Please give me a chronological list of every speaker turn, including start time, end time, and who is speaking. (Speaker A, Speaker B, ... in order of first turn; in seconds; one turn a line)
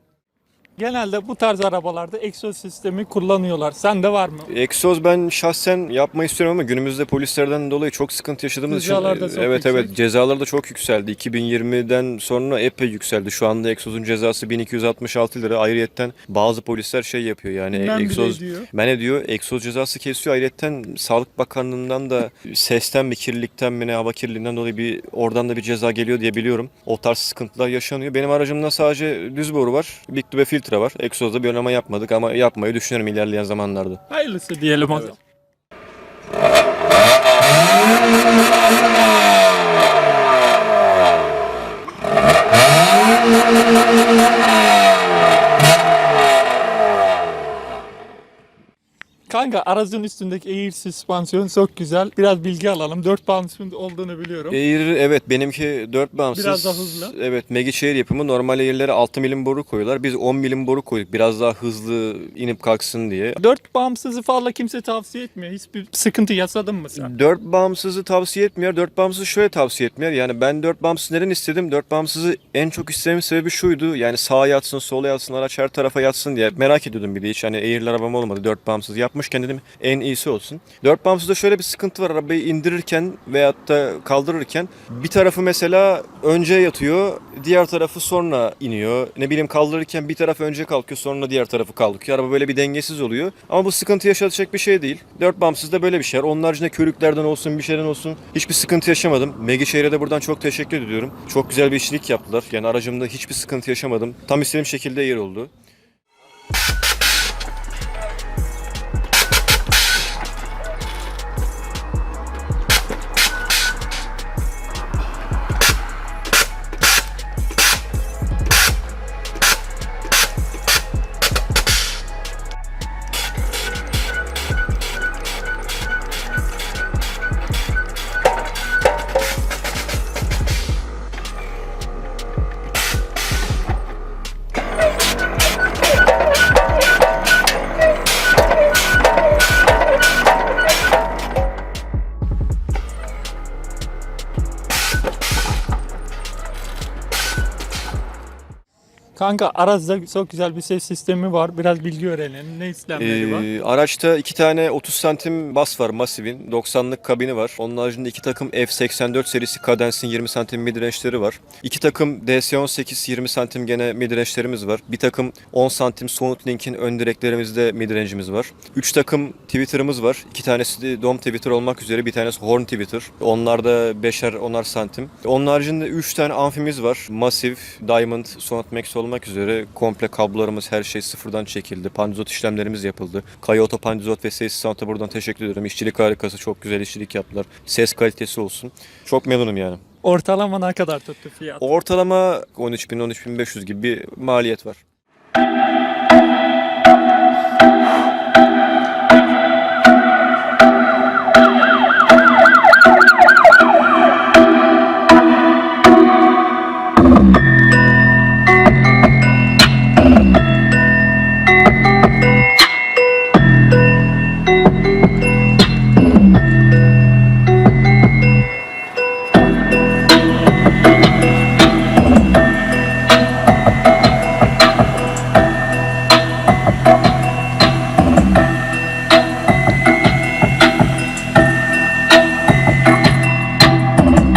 Speaker A: 0.8-4.5
Speaker B: 4.5-34.0
Speaker A: 8.7-10.0
Speaker A: 17.7-18.7
Speaker A: 34.1-35.2
Speaker A: 49.3-54.6
Speaker B: 54.5-63.4
Speaker A: 56.3-57.1
Speaker A: 63.4-67.1
Speaker B: 66.9-105.5
Speaker A: 149.2-153.5
Speaker B: 153.0-189.8
Speaker A: 190.0-191.7
Speaker B: 191.6-194.8